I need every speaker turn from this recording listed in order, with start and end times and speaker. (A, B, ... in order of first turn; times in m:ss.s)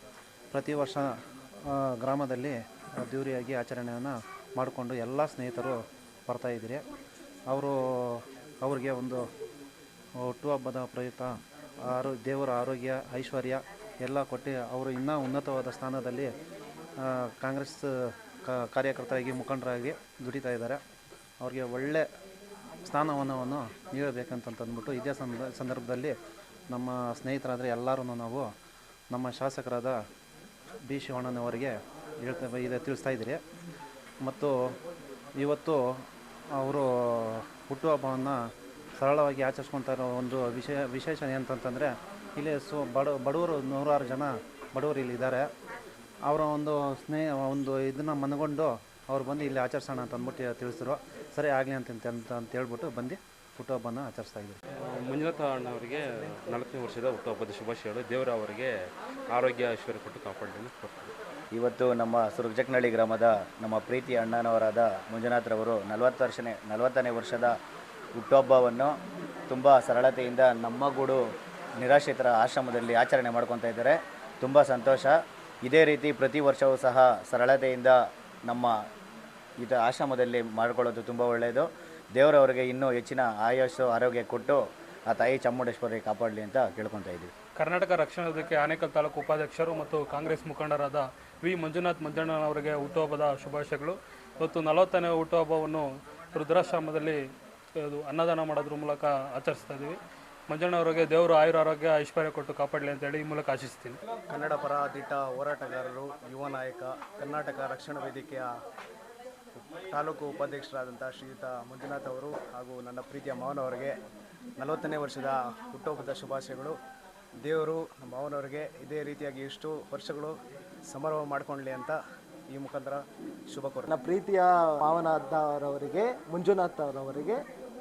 0:00.5-0:06.9 A
0:07.5-0:09.3 A
0:10.2-0:16.3 A
0:17.0-0:20.8 A
0:21.4-0:22.1 A
0:22.8-0:26.2 A
0:26.7-0:28.5 A
0:29.1-0:30.0 A
0:30.8-0:33.4 A
0:34.2-0:34.8 A
0:35.4-0:45.5 A
0:46.2-0:54.6 A
0:55.1-0:56.0 B
0:56.5-0:58.6 B
0:59.4-1:01.1 B
1:01.5-1:07.5 C
1:08.2-1:09.0 C
1:09.5-1:11.2 C
1:11.8-1:18.8 C
1:19.6-1:27.3 C
1:27.6-1:37.2 D
1:37.8-1:44.0 D
1:44.3-1:48.5 E
1:49.9-1:54.0 E
1:54.6-1:56.8 E
1:57.4-2:00.4 E
2:00.9-2:02.0 E
2:02.5-2:03.9 E
2:03.9-2:07.4 F